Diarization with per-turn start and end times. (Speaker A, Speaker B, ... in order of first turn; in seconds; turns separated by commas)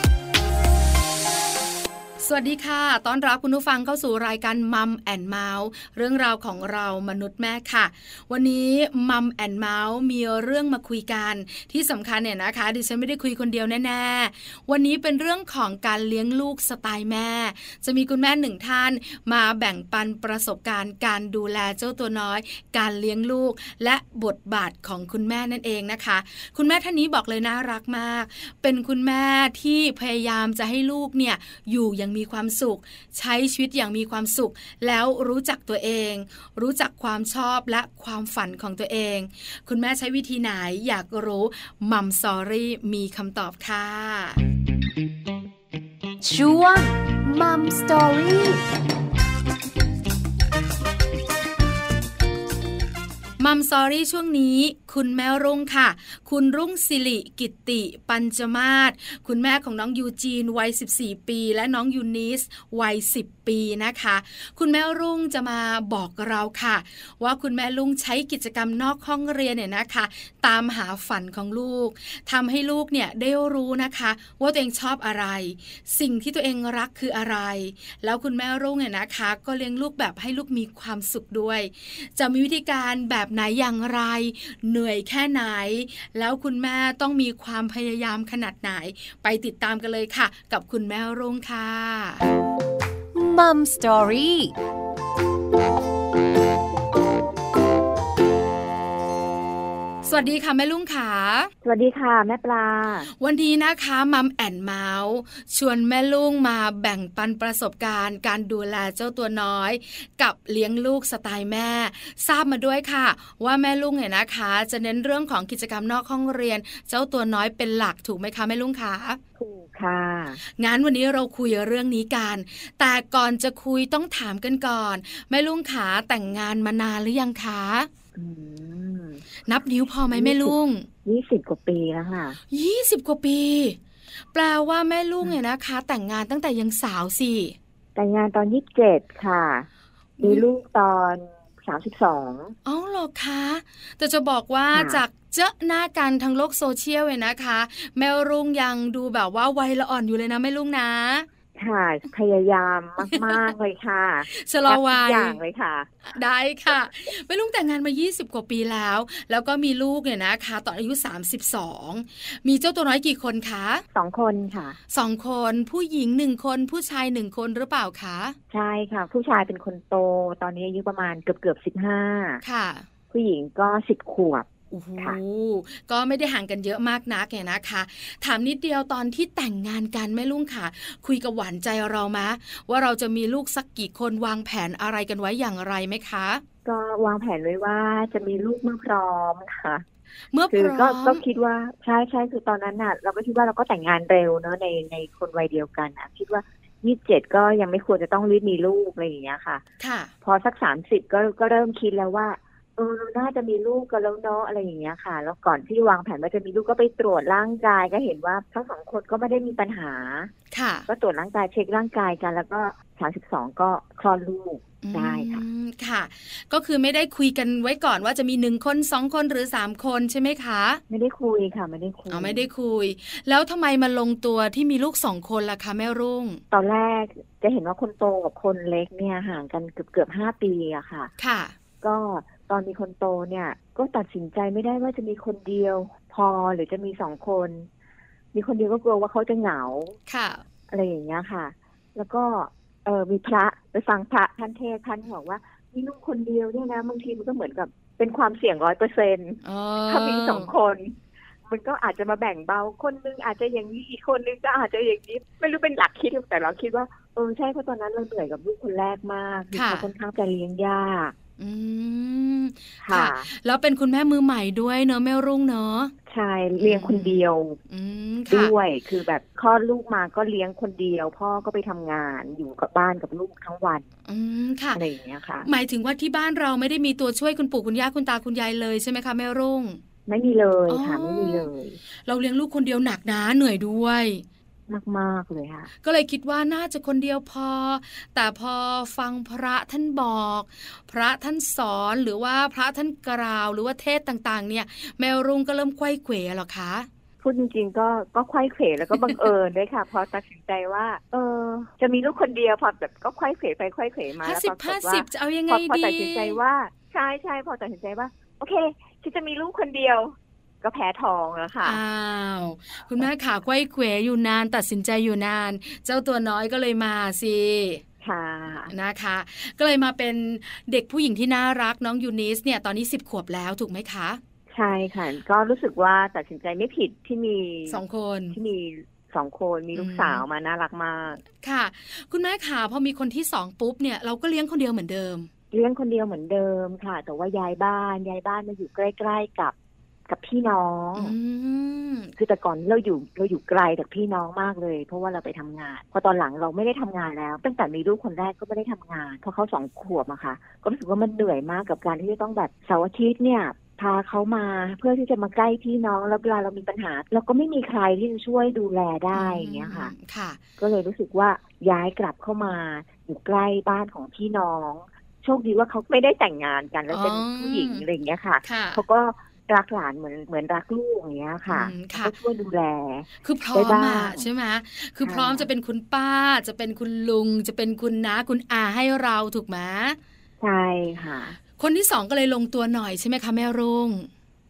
Speaker A: 2.2-44.4, Speaker B: 46.2-48.6, Speaker A: 53.4-92.2, Speaker B: 93.1-94.5, Speaker A: 100.0-101.5, Speaker C: 101.6-103.1, Speaker A: 103.1-119.2, Speaker C: 119.4-120.4, Speaker A: 120.4-127.9, Speaker C: 128.2-129.2, Speaker A: 129.4-130.9, Speaker C: 130.1-132.4, Speaker A: 132.5-137.6, Speaker C: 138.0-139.7, Speaker A: 140.2-140.4, Speaker C: 140.2-142.6, Speaker A: 142.7-151.3, Speaker C: 144.7-145.0, Speaker C: 151.6-156.0, Speaker A: 153.1-153.5, Speaker A: 154.3-155.4, Speaker A: 156.1-163.8, Speaker C: 163.9-164.8, Speaker A: 164.9-168.4, Speaker C: 168.5-172.4, Speaker A: 172.4-172.9, Speaker C: 173.1-175.2, Speaker A: 174.7-186.4, Speaker C: 186.7-189.8, Speaker A: 190.3-191.2, Speaker C: 190.5-199.6, Speaker A: 199.8-200.1, Speaker C: 200.2-210.3, Speaker A: 210.5-210.9, Speaker C: 210.9-215.4, Speaker A: 214.8-220.8, Speaker C: 220.9-222.5, Speaker A: 222.1-226.4, Speaker C: 226.5-231.1, Speaker A: 231.2-231.6, Speaker C: 231.8-237.7, Speaker C: 238.3-240.0, Speaker A: 240.1-240.4, Speaker C: 240.7-261.1, Speaker A: 249.4-250.5, Speaker A: 259.5-259.9, Speaker A: 261.4-265.9, Speaker C: 262.8-263.3, Speaker C: 266.1-267.6, Speaker A: 266.6-268.5, Speaker C: 268.3-273.9, Speaker A: 274.1-274.8, Speaker C: 274.8-275.5, Speaker A: 275.4-279.8, Speaker C: 280.1-281.8, Speaker A: 280.7-281.5, Speaker A: 282.1-284.2, Speaker C: 284.7-285.7, Speaker A: 285.8-296.9, Speaker C: 297.2-311.8, Speaker A: 304.2-306.4, Speaker A: 311.6-317.8, Speaker C: 318.0-318.7, Speaker A: 318.7-324.2, Speaker C: 324.5-331.2, Speaker A: 327.7-328.4, Speaker A: 329.7-330.2, Speaker A: 331.3-335.3, Speaker C: 335.5-339.5, Speaker C: 340.1-341.1, Speaker A: 341.0-342.1, Speaker C: 342.2-359.9, Speaker A: 359.1-360.4, Speaker C: 360.6-374.3, Speaker A: 366.9-367.9, Speaker A: 368.4-368.8, Speaker A: 371.5-372.1, Speaker A: 373.2-380.0, Speaker C: 375.0-375.5, Speaker C: 380.4-381.4, Speaker A: 381.6-384.1